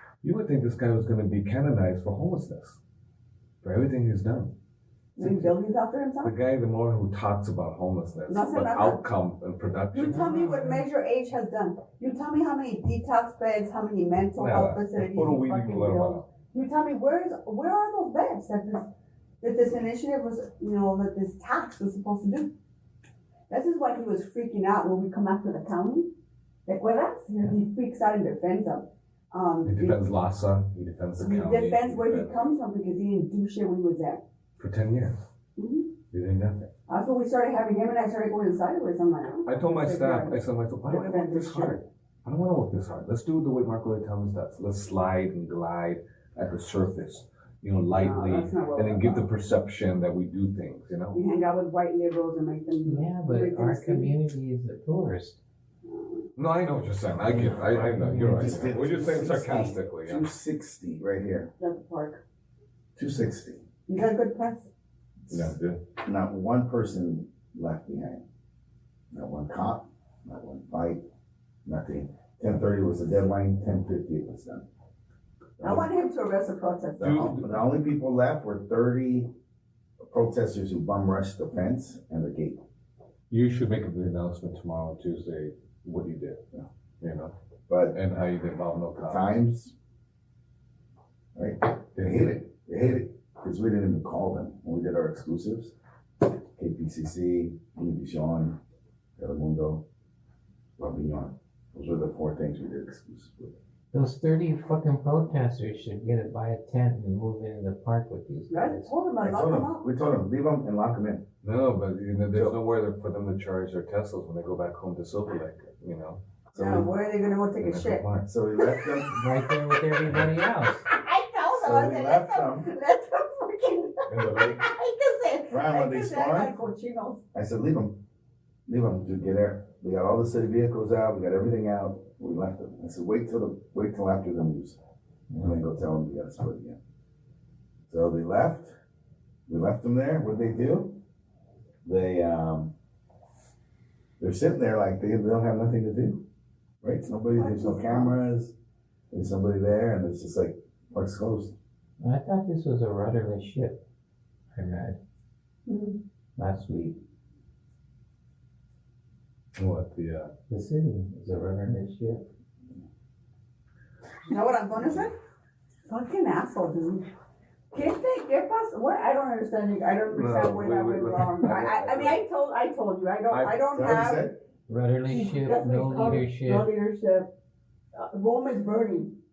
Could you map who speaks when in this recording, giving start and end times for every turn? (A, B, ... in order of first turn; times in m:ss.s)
0:00.2-0:02.8 A
0:03.6-0:04.5 A
0:05.2-0:06.3 B
0:05.2-0:05.5 A
0:06.2-0:10.3 A
0:08.3-0:09.0 B
0:09.9-0:18.9 B
0:10.1-0:10.8 C
0:14.4-0:16.3 A
0:19.4-0:22.5 B
0:23.5-0:26.1 B
0:26.7-0:30.0 B
0:29.6-0:32.4 A
0:31.2-0:34.2 B
0:34.6-0:35.2 A
0:35.6-0:35.9 B
0:36.1-0:36.7 A
0:36.9-0:41.8 B
0:39.5-0:51.2 A
0:48.0-0:49.3 B
0:51.1-0:54.1 B
0:52.8-0:55.4 C
0:55.9-0:56.3 B
0:56.4-1:00.3 A
0:57.2-0:58.7 C
0:58.3-1:01.5 D
1:01.6-1:02.2 B
1:03.0-1:03.6 D
1:03.9-1:04.7 B
1:05.3-1:05.5 D
1:05.3-1:05.8 A
1:06.0-1:08.3 D
1:09.1-1:11.0 D
1:11.7-1:14.7 D
1:15.6-1:15.9 D
1:15.6-1:17.1 B
1:17.0-1:19.3 D
1:17.0-1:17.6 A
1:20.1-1:22.6 D
1:23.3-1:26.4 A
1:27.0-1:27.3 A
1:27.7-1:28.0 D
1:27.9-1:29.3 A
1:29.0-1:29.7 D
1:31.4-1:35.7 D
1:32.0-1:32.4 A
1:36.6-1:38.6 D
1:39.2-1:39.8 D
1:40.8-1:43.6 D
1:43.9-1:48.9 C
1:48.5-1:49.8 B
1:49.2-1:51.2 D
1:51.4-1:56.2 A
1:56.5-1:56.9 D
1:56.5-1:58.0 B
1:57.6-1:58.3 A
1:58.3-1:59.2 D
1:58.6-1:58.9 B
1:59.1-2:00.9 C
2:00.9-2:07.2 B
2:01.5-2:02.7 D
2:04.1-2:04.6 A
2:05.5-2:06.5 D
2:07.3-2:08.0 D
2:08.7-2:14.8 D
2:15.4-2:16.8 D
2:17.9-2:18.8 D
2:19.5-2:21.0 D
2:21.8-2:22.7 D
2:24.2-2:26.2 D
2:26.8-2:28.5 D
2:27.3-2:28.2 B
2:29.1-2:31.6 D
2:32.0-2:33.8 C
2:34.5-2:35.0 C
2:35.7-2:36.0 B
2:36.4-2:37.0 C
2:39.6-2:40.3 A
2:40.5-2:42.2 C
2:44.2-2:45.1 B
2:45.9-2:47.1 B
2:47.7-2:54.3 B
2:50.1-2:52.2 A
2:53.3-2:53.7 A
2:53.7-2:54.4 D
2:54.7-2:56.7 C
2:55.1-2:57.3 B
2:58.0-2:59.1 B